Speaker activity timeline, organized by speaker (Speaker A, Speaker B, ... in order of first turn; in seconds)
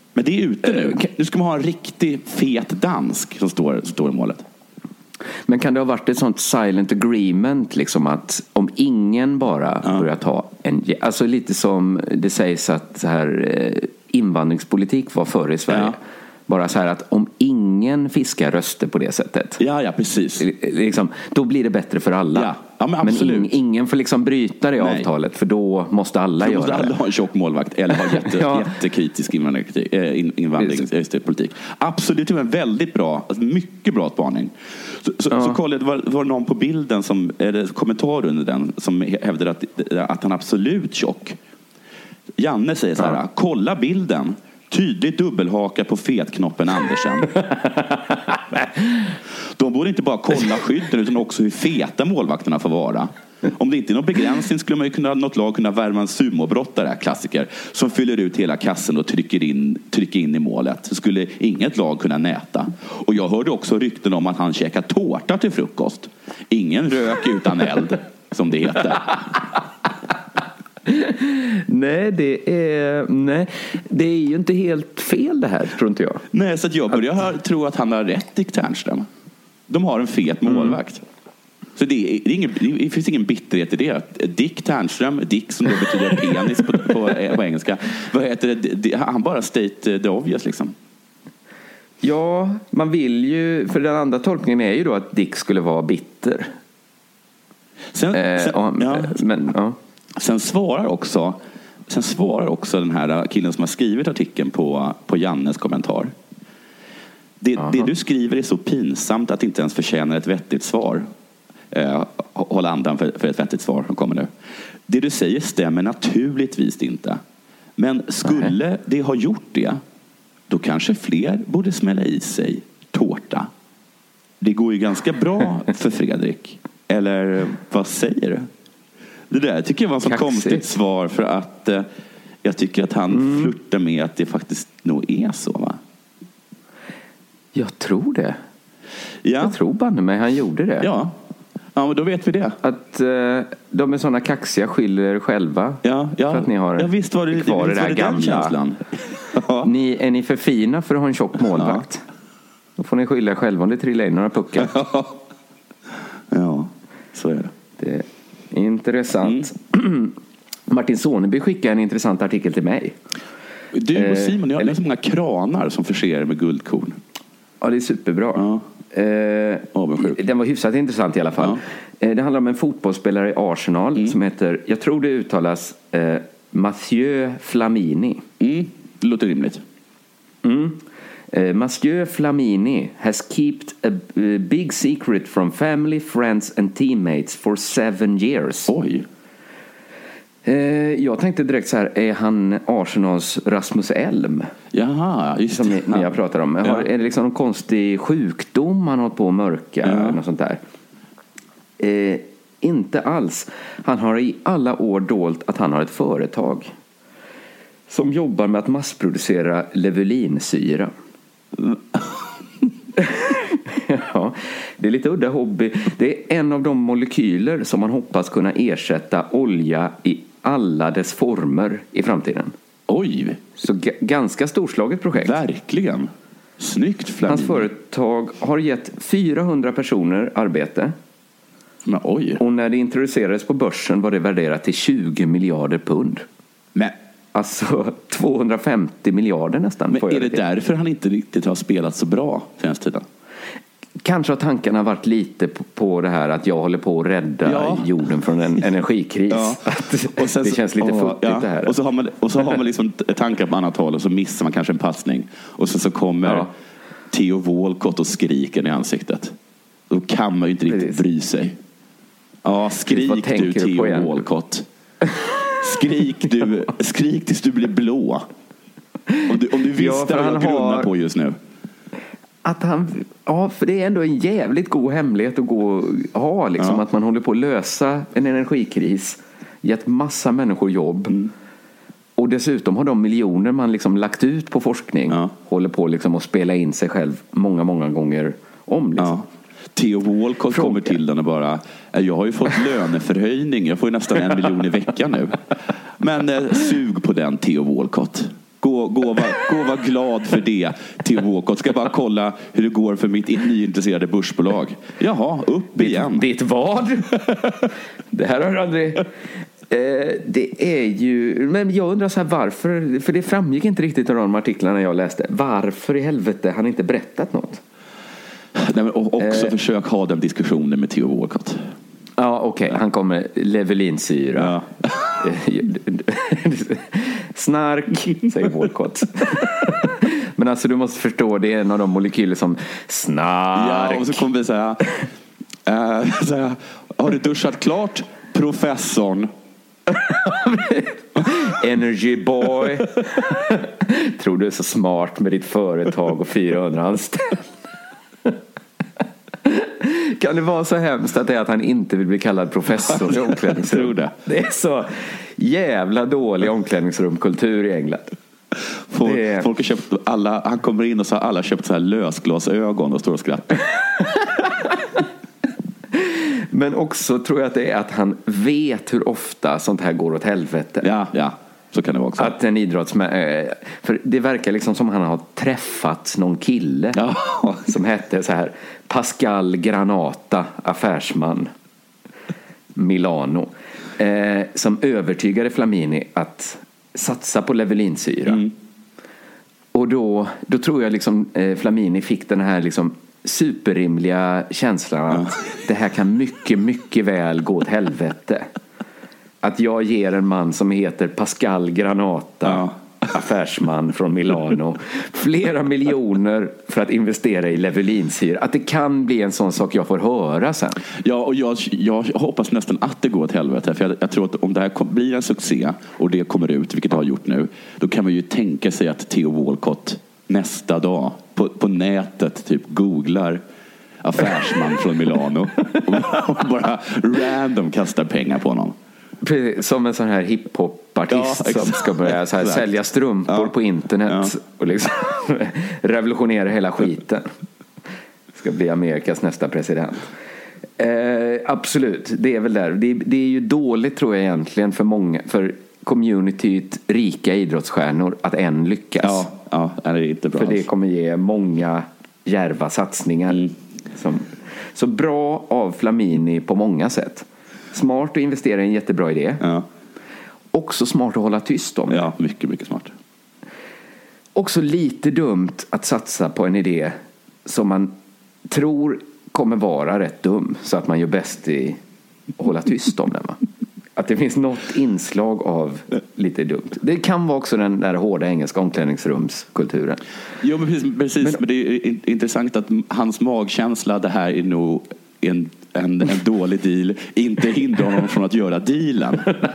Speaker A: 0.1-4.5, 15.7-15.9, 19.6-20.5, 22.3-23.5, 24.8-25.1, 26.4-41.4, 42.4-47.3, 49.5-69.3, 76.3-79.1, 79.7-81.0, 81.8-90.7, 97.9-99.2, 100.2-106.1, 107.4-111.1, 111.7-114.3, 114.9-117.2, 117.8-119.8, 120.5-123.5, 124.4-128.5, 129.3-131.9, 132.4-135.8, 139.2-139.6, 140.8-141.2, 141.7-142.6, 145.8-149.7, 151.6-151.8, 154.6-155.1, 156.3-157.5, 163.7-167.0, 168.3-168.6, 169.7-170.2, 178.4-179.6, 188.7-189.1, 194.7-196.8, 199.8-200.2, 211.6-212.0, 222.9-223.4, 225.2-227.7, 231.8-232.4, 239.9-243.1, 247.4-247.9, 249.3-256.5, 257.1-259.3, 259.9-261.6, 262.4-264.6, 265.6-268.2, 269.3-271.4, 289.0-295.4, 296.0-306.2, 318.6-321.6, 324.4-325.2, 333.6-334.8, 335.6-339.3, 352.9-354.1, 358.9-363.6, 370.8-372.4, 376.9-377.7, 402.4-402.7, 411.0-423.4, 424.0-428.8, 431.1-432.7, 434.1-434.3, 449.0-450.6, 461.9-462.9, 480.4-489.3
Speaker B: 0.7-1.1, 5.5-19.6, 20.4-26.9, 27.9-28.7, 35.3-35.6, 70.9-76.2, 80.5-80.7, 92.0-96.5, 98.1-99.8, 107.6-107.9, 130.0-130.7, 133.1-133.5, 137.5-138.4, 139.4-140.9, 142.6-148.6, 149.6-152.0, 152.8-154.8, 157.8-160.1, 160.7-162.9, 163.9-164.7, 167.6-178.2, 180.4-188.7, 190.4-194.5, 195.5-200.6, 201.8-206.7, 207.9-210.9, 213.0-222.5, 223.6-225.4, 227.2-230.9, 232.4-236.2, 237.3-240.4, 244.0-251.8, 256.2-256.5, 260.7-261.0, 262.8-264.3, 269.7-270.9, 272.4-281.2, 282.2-289.2, 290.5-290.9, 305.8-309.1, 309.7-317.6, 319.2-319.5, 322.2-324.6, 325.2-334.2, 339.9-347.4, 349.4-358.1, 359.0-359.5, 364.0-365.0, 365.9-370.9, 372.2-377.0, 377.6-381.5, 382.8-388.5, 389.7-398.5, 399.4-410.8, 429.2-437.3, 438.3-440.1, 440.8-449.3, 450.4-459.4, 460.5-462.1, 464.3-467.9, 468.5-471.8, 472.4-473.4, 473.9-480.0